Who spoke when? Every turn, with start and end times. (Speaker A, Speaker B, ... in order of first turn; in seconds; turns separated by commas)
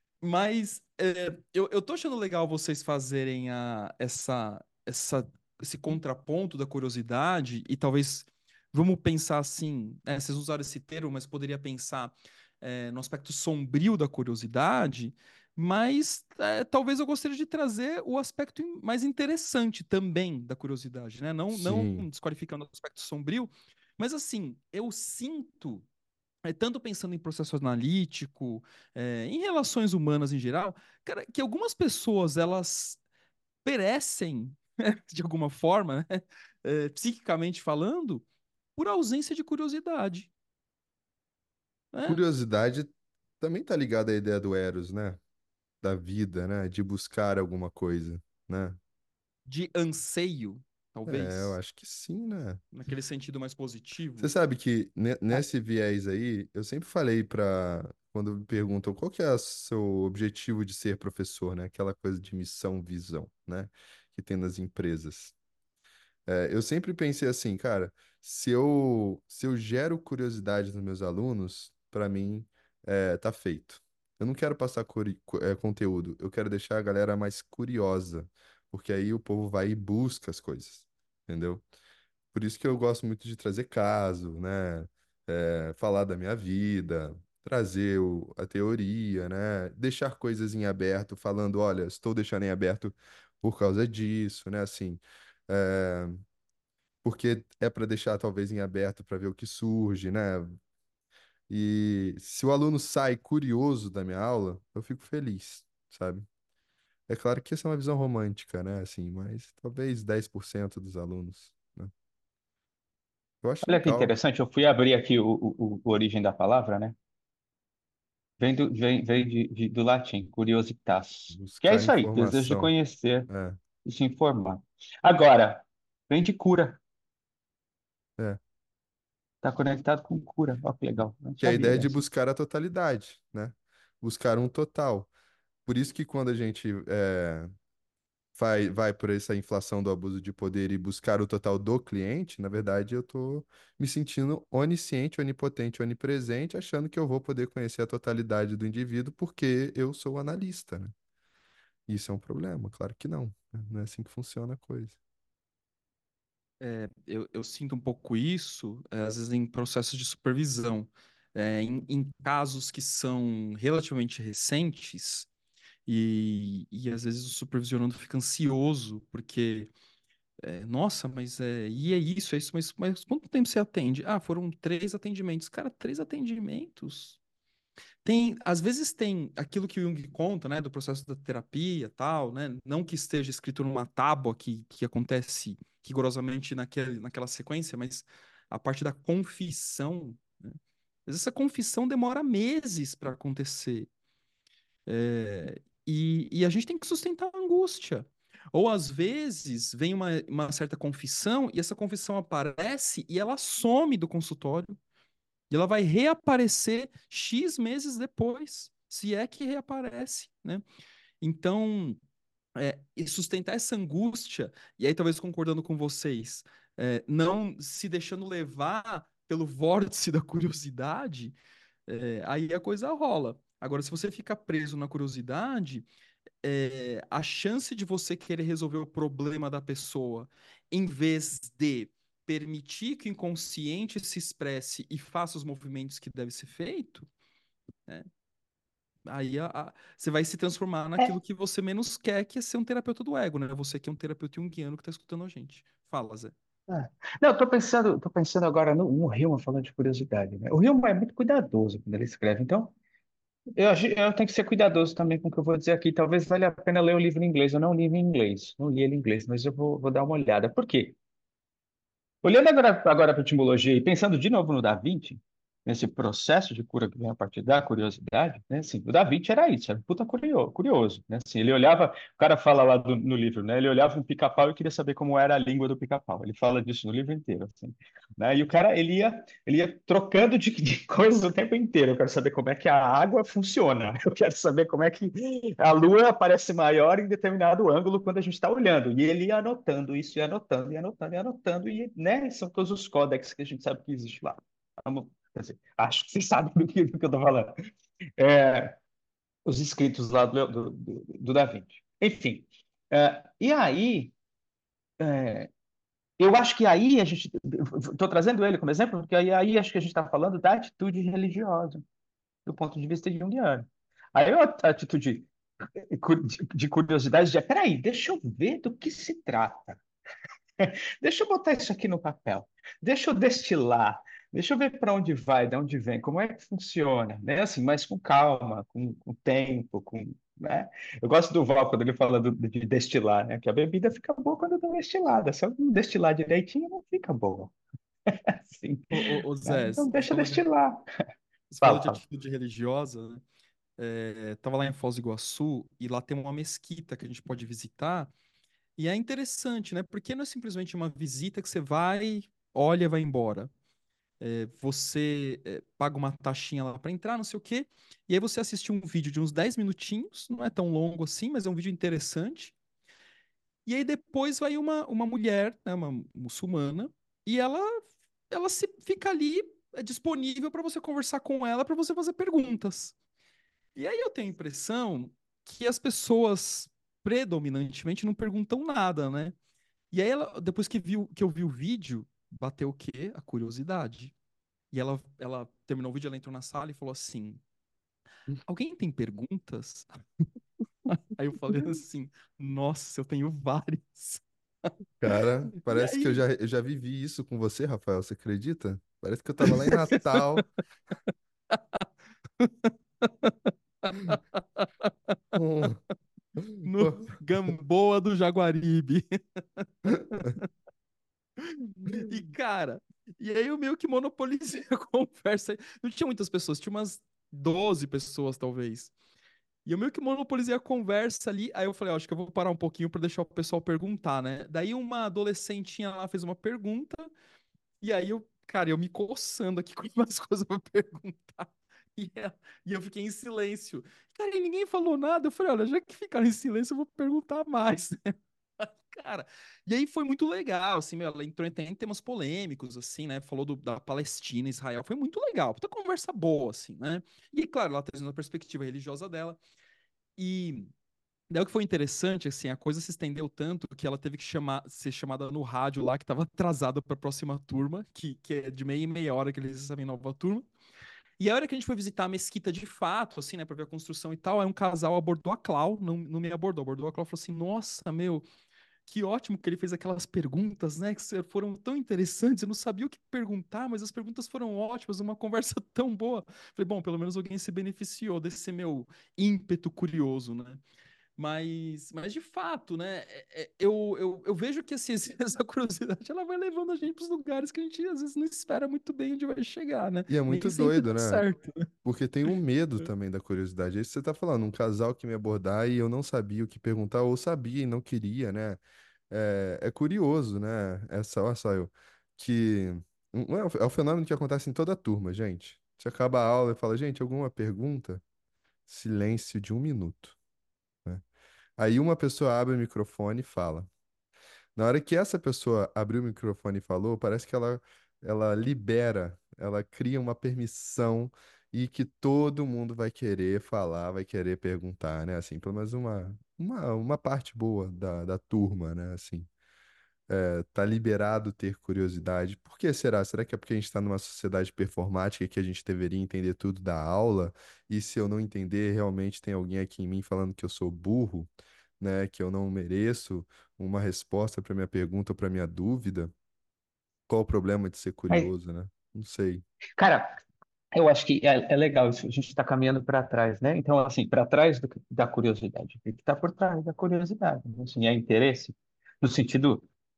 Speaker A: 0.2-25.9, Speaker B: 21.5-22.1, Speaker A: 26.4-33.0, Speaker A: 33.6-38.2, Speaker A: 38.8-40.3, Speaker A: 41.9-42.2, Speaker B: 42.1-45.2, Speaker B: 45.8-48.8, Speaker A: 49.5-51.6, Speaker B: 51.1-52.6, Speaker A: 52.7-54.3, Speaker B: 54.2-65.3, Speaker B: 66.3-81.7, Speaker B: 82.3-96.2, Speaker B: 97.0-100.6, Speaker B: 101.5-106.3, Speaker B: 107.1-111.9, Speaker B: 113.4-114.2, Speaker C: 113.6-117.0, Speaker C: 118.4-123.3, Speaker B: 121.3-122.7, Speaker B: 123.3-123.6, Speaker C: 123.8-126.8, Speaker C: 129.4-132.0, Speaker B: 131.4-135.1, Speaker B: 135.7-137.5, Speaker B: 138.4-150.9, Speaker B: 151.9-155.0, Speaker A: 156.6-165.3, Speaker A: 165.9-169.7, Speaker A: 170.4-177.2, Speaker A: 178.0-193.9, Speaker A: 194.9-204.8, Speaker A: 205.5-210.6, Speaker A: 211.2-212.0, Speaker A: 212.6-221.4, Speaker A: 221.9-225.9, Speaker A: 226.4-237.1, Speaker A: 239.1-246.3, Speaker C: 246.7-252.7, Speaker C: 253.6-261.0, Speaker C: 262.2-297.6, Speaker C: 298.2-298.8, Speaker C: 299.4-304.1, Speaker C: 305.0-305.5, Speaker C: 306.2-311.8, Speaker C: 312.5-315.3, Speaker C: 315.8-319.8, Speaker C: 320.6-337.5, Speaker C: 338.1-338.9, Speaker A: 338.9-340.4, Speaker C: 339.4-340.9, Speaker A: 341.5-343.2, Speaker C: 341.6-342.0, Speaker A: 343.8-348.1, Speaker A: 348.8-353.5, Speaker A: 354.2-362.6, Speaker A: 363.7-372.9, Speaker A: 373.8-379.4, Speaker A: 379.9-384.1, Speaker A: 384.7-387.4, Speaker A: 388.5-389.9, Speaker A: 390.9-394.2, Speaker B: 395.0-400.5, Speaker A: 395.6-396.2, Speaker A: 399.5-400.4, Speaker A: 401.5-401.8, Speaker A: 402.4-405.1, Speaker B: 405.3-405.8, Speaker B: 406.4-407.1, Speaker A: 406.6-409.0, Speaker A: 409.6-410.5, Speaker A: 411.4-418.9, Speaker A: 419.6-427.1, Speaker A: 427.8-449.4, Speaker A: 450.2-450.7, Speaker A: 451.3-460.5, Speaker A: 461.2-468.2, Speaker A: 468.9-480.6, Speaker A: 481.2-491.7, Speaker B: 490.1-491.2, Speaker B: 491.9-508.0, Speaker B: 508.7-510.2, Speaker B: 511.6-513.7, Speaker B: 514.6-529.3, Speaker B: 530.1-546.1, Speaker B: 547.1-549.5, Speaker C: 549.8-550.2, Speaker C: 550.7-559.7